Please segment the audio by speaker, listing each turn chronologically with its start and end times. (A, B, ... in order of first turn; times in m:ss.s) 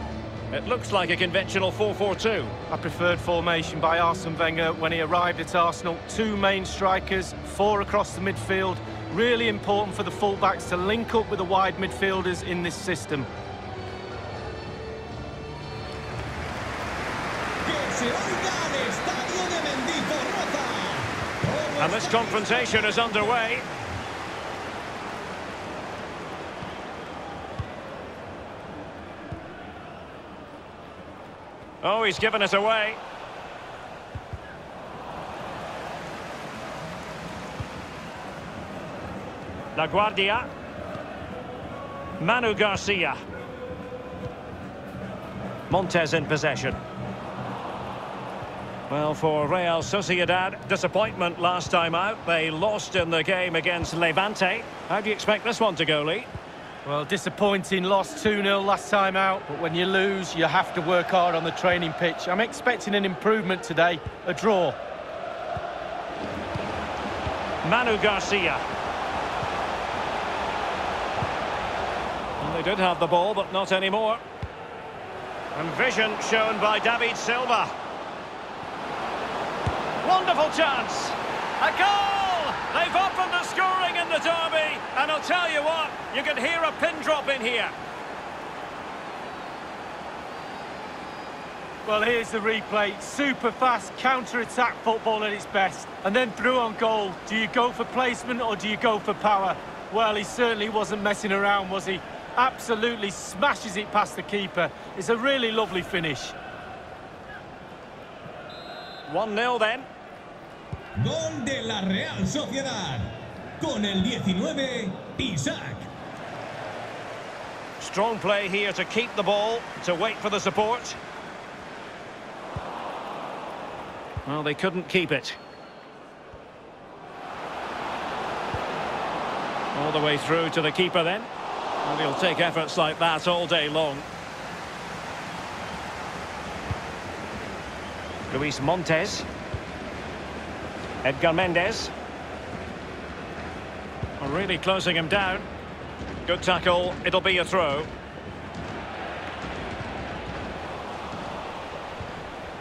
0:00.5-0:02.5 A
0:02.7-0:13.3 B
0:17.6-0:23.7 C
0:21.8-0:23.6 A
0:31.8-0:33.0 A
0:39.8-0:40.5 A
0:42.2-0:43.2 A
0:45.7-0:46.8 A
0:48.9-0:56.3 A
0:56.8-1:04.8 B
1:07.6-1:08.6 A
1:12.4-1:14.2 A
1:15.6-1:17.7 A
1:20.0-1:27.7 A
1:31.9-1:46.4 B
1:49.1-1:49.9 A
1:51.0-1:55.9 C
1:57.8-2:01.0 A
2:04.2-2:05.4 A
2:09.7-2:11.3 A
2:11.8-2:14.1 A
2:18.3-2:19.2 A
2:21.0-2:21.9 A
2:24.2-2:25.5 A
2:26.3-2:27.9 A